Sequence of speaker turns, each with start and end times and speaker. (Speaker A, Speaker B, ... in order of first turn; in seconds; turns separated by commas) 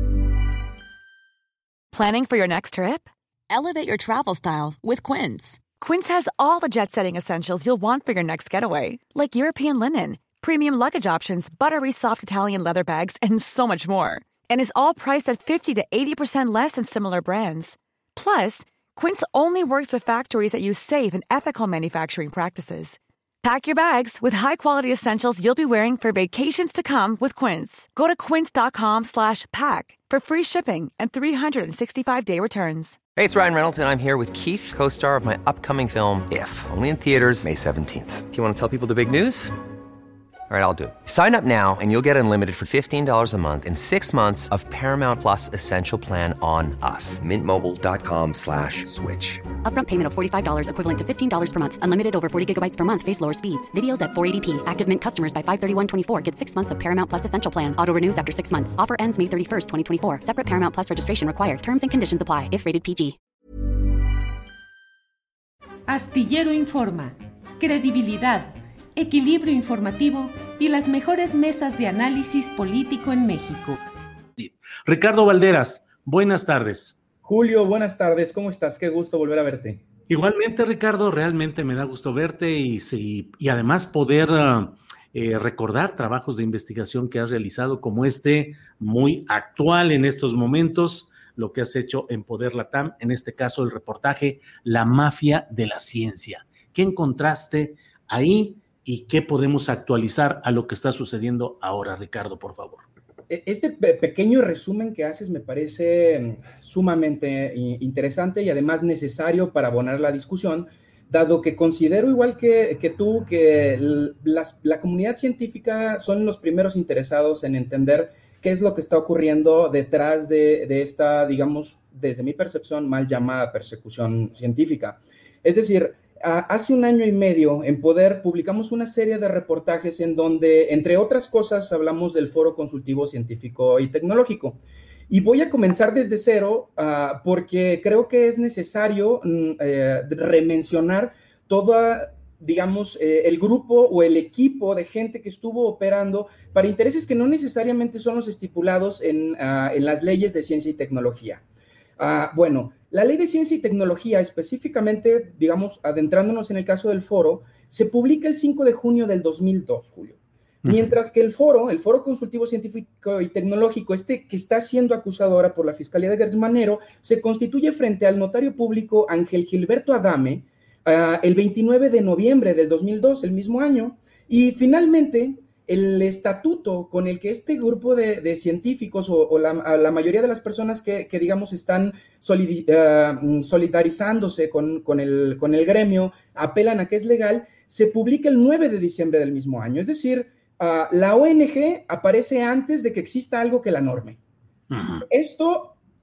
Speaker A: 1.9-33.0, Speaker B: 33.1-39.5, Speaker B: 40.5-49.4, Speaker C: 49.5-63.2, Speaker D: 65.9-73.8, Speaker E: 74.4-77.0, Speaker F: 77.2-79.8, Speaker E: 80.1-102.9, Speaker F: 103.3-151.4, Speaker F: 152.0-194.2, Speaker E: 160.7-160.9, Speaker E: 194.7-195.0, Speaker F: 195.1-195.8